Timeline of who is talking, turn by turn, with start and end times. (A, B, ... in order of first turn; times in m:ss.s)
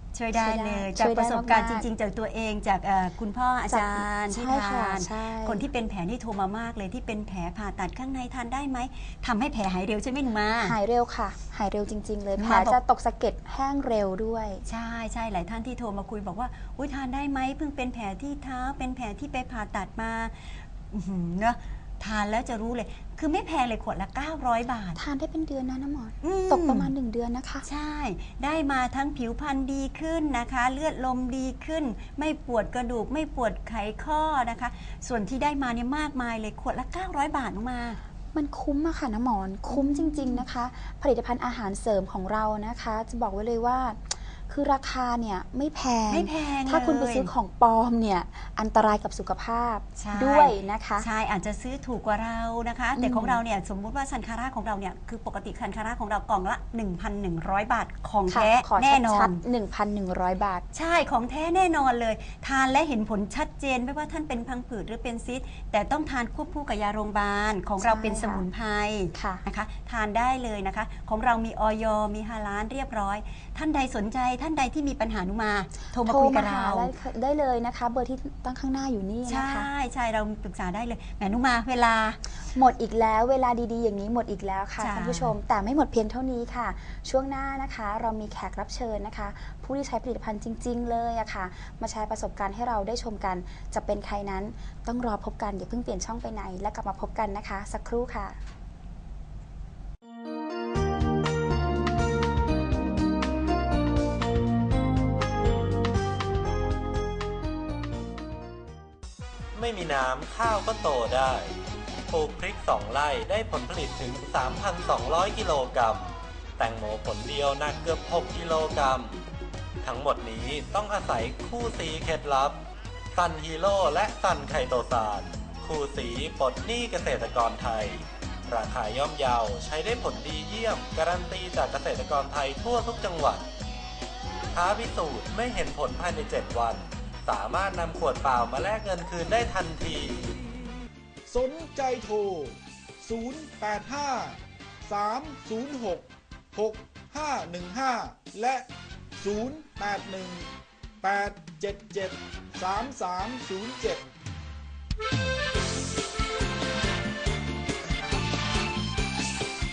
0:00.2-0:10.8 A
0:00.3-0:01.9 B
0:03.7-0:05.6 B
0:10.6-0:14.6 B
0:12.4-0:12.8 A
0:14.7-0:25.0 A
0:25.0-0:27.7 B
0:26.2-0:26.9 A
0:27.6-0:38.0 A
0:38.3-0:51.1 B
0:39.7-0:40.4 A
0:46.1-0:47.3 A
0:50.0-0:59.4 A
0:53.0-0:53.4 B
0:58.3-1:00.6 B
1:00.7-1:16.9 A
1:07.8-1:08.4 B
1:09.1-1:09.4 B
1:16.0-1:19.7 B
1:19.3-1:22.2 A
1:22.5-1:38.4 B
1:24.8-1:25.3 A
1:49.6-1:51.5 C
1:52.1-1:59.2 C
1:59.8-2:02.6 C
2:03.1-2:13.5 C
2:14.5-2:20.4 C
2:21.3-2:30.5 D
2:31.0-2:34.1 D